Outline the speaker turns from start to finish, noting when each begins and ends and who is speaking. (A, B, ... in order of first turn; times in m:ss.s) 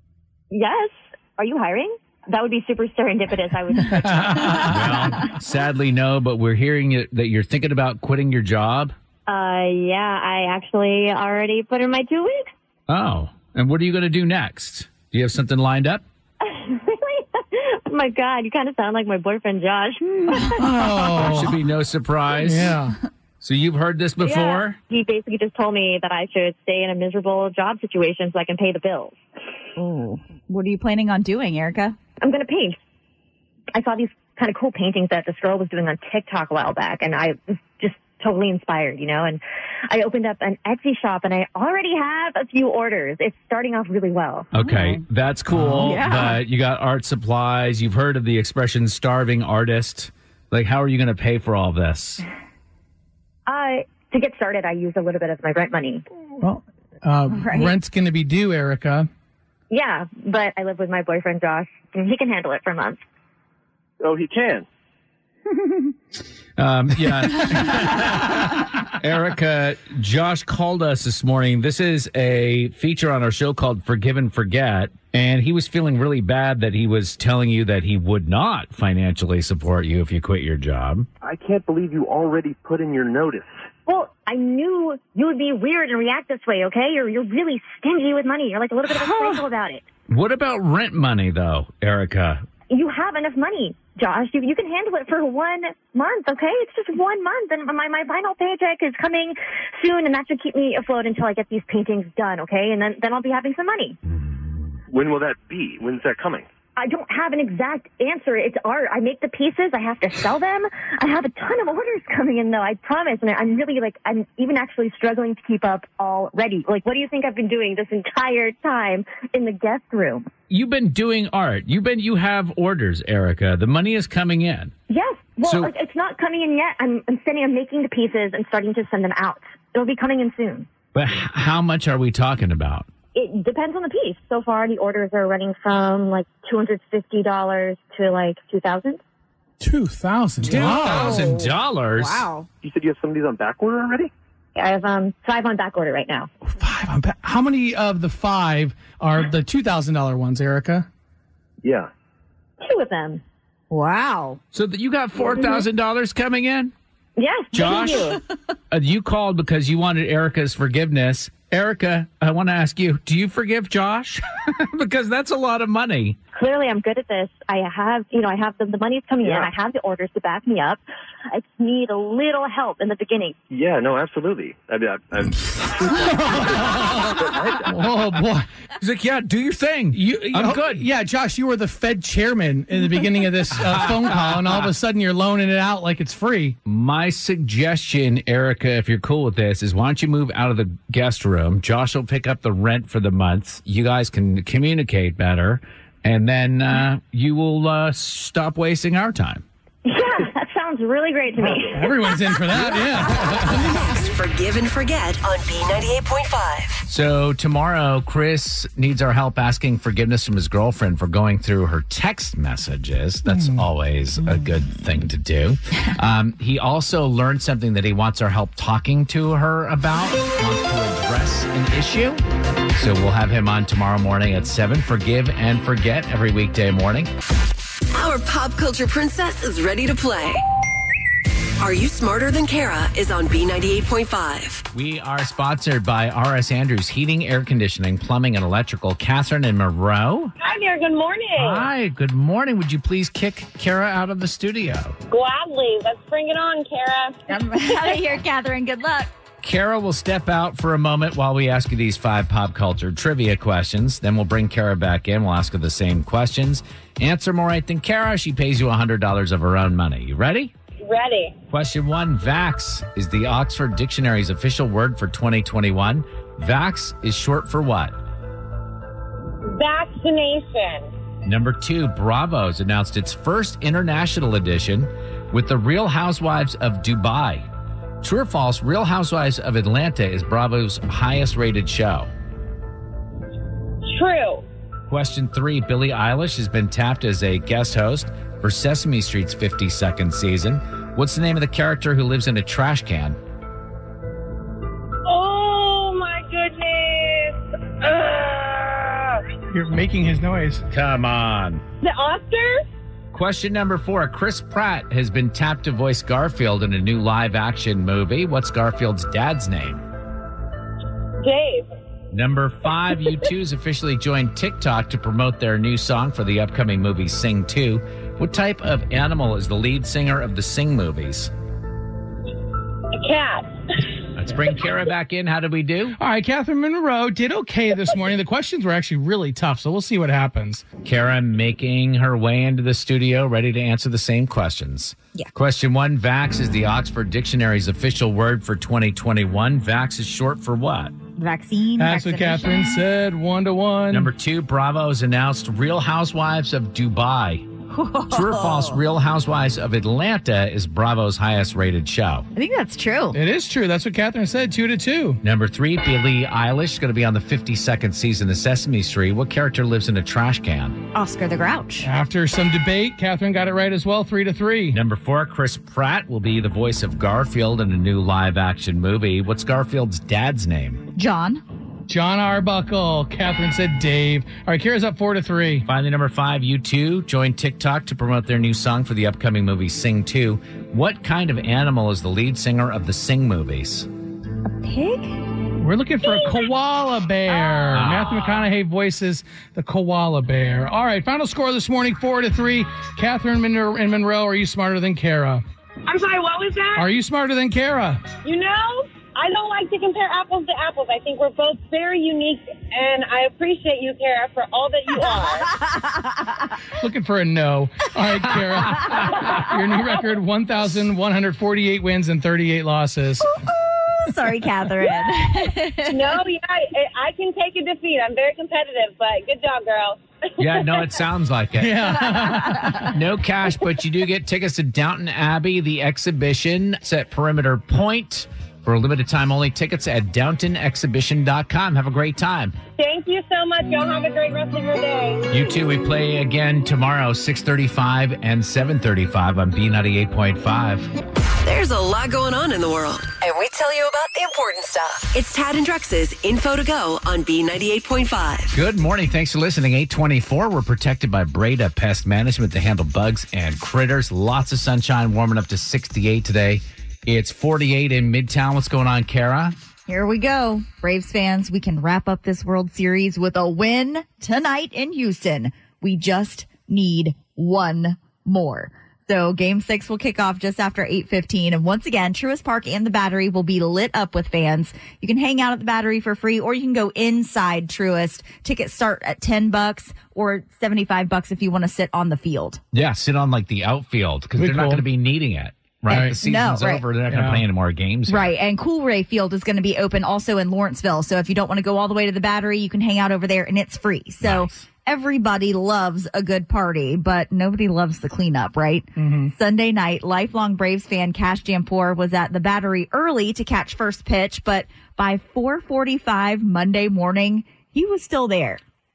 0:00.5-0:04.7 A
0:03.8-0:05.2 B
0:04.6-0:08.9 C
0:09.3-0:12.5 A
0:12.9-0:16.0 C
0:16.4-0:20.6 A
0:20.5-0:21.6 B
0:21.2-0:22.8 C
0:22.4-0:23.0 B
0:23.4-0:24.8 C
0:24.2-0:29.2 A
0:29.8-0:32.0 D
0:32.2-0:32.8 A
0:33.7-0:44.5 A
0:44.5-0:52.2 C
0:44.6-0:45.0 D
0:45.8-0:46.4 D
0:53.5-0:56.0 A
0:56.4-0:59.1 B
0:57.3-0:57.8 D
0:59.7-1:03.0 A
1:04.0-1:04.6 E
1:06.6-1:21.1 C
1:21.2-1:23.6 E
1:23.8-1:29.8 A
1:30.1-1:32.4 C
1:32.7-1:44.0 A
1:44.9-1:46.4 E
1:46.8-2:00.3 A
2:00.5-2:04.7 C
2:04.9-2:10.7 A
2:05.4-2:05.7 C
2:10.9-2:12.9 C
2:13.1-2:19.0 A
2:19.6-2:21.2 B
2:20.4-2:22.2 C
2:20.9-2:21.4 D
2:22.0-2:22.5 D
2:22.6-2:24.1 E
2:24.5-2:26.3 A
2:26.4-2:30.9 B
2:31.6-2:31.9 E
2:32.6-2:33.2 A
2:33.7-2:34.4 D
2:34.5-2:36.7 C
2:37.2-2:38.2 A
2:37.5-2:38.2 C
2:38.7-2:46.2 C
2:46.3-2:53.4 A
2:49.2-2:49.5 E
2:53.5-2:57.7 E
2:55.9-2:58.5 B
2:58.8-3:00.9 C
2:59.9-3:06.6 B
3:03.6-3:04.7 C
3:06.6-3:19.4 C
3:19.8-3:22.1 A
3:21.4-3:23.8 B
3:23.5-3:26.8 F
3:26.8-3:42.2 C
3:33.3-3:33.6 B
3:42.7-3:47.1 C
3:47.9-3:50.4 F
3:51.6-3:54.6 F
3:54.7-4:00.3 C
4:00.4-4:01.7 G
4:01.4-4:05.0 C
4:05.1-4:07.2 G
4:07.3-4:09.1 D
4:09.4-4:20.5 C
4:20.8-4:21.4 G
4:21.5-4:28.0 C
4:29.4-4:30.9 G
4:31.2-4:37.4 C
4:38.0-4:42.1 C
4:43.9-4:44.4 G
4:44.9-4:53.2 C
4:55.0-4:59.2 G
4:59.5-5:00.6 B
5:00.7-5:01.6 C
5:01.8-5:02.6 G
5:03.1-5:09.8 C
5:11.2-5:11.7 G
5:12.1-5:21.3 C
5:22.9-5:23.6 G
5:24.1-5:26.0 C
5:26.0-5:30.6 B
5:30.8-5:40.9 C
5:41.2-5:42.8 D
5:41.8-5:44.1 B
5:43.9-5:47.5 C
5:47.7-5:48.8 D
5:48.1-5:52.2 C
5:52.3-5:53.2 D
5:53.1-5:55.2 B
5:55.2-6:00.8 C
6:00.9-6:01.9 D
6:01.8-6:04.8 B
6:04.7-6:10.9 C
6:10.9-6:11.4 D
6:11.9-6:15.6 B
6:15.6-6:23.9 C
6:24.5-6:25.2 D
6:25.6-6:35.4 B
6:26.1-6:26.5 G
6:27.3-6:27.7 G
6:27.7-6:28.4 C
6:35.8-6:36.9 G
6:36.8-6:38.0 B
6:38.2-6:45.6 G
6:45.5-6:46.4 D
6:46.8-6:53.3 B
6:53.5-6:56.2 D
6:55.8-7:00.9 G
7:00.4-7:01.9 C
7:01.6-7:02.9 B
7:02.8-7:12.6 C
7:12.8-7:15.2 G
7:15.3-7:20.9 C
7:21.4-7:28.6 F
7:28.5-7:39.6 C
7:39.9-8:02.6 D
8:02.7-8:08.3 C
8:04.4-8:04.9 B
8:05.9-8:06.2 B
8:06.1-8:06.8 D
8:07.0-8:07.4 B
8:08.1-8:28.6 D
8:14.2-8:14.6 C
8:19.0-8:19.3 B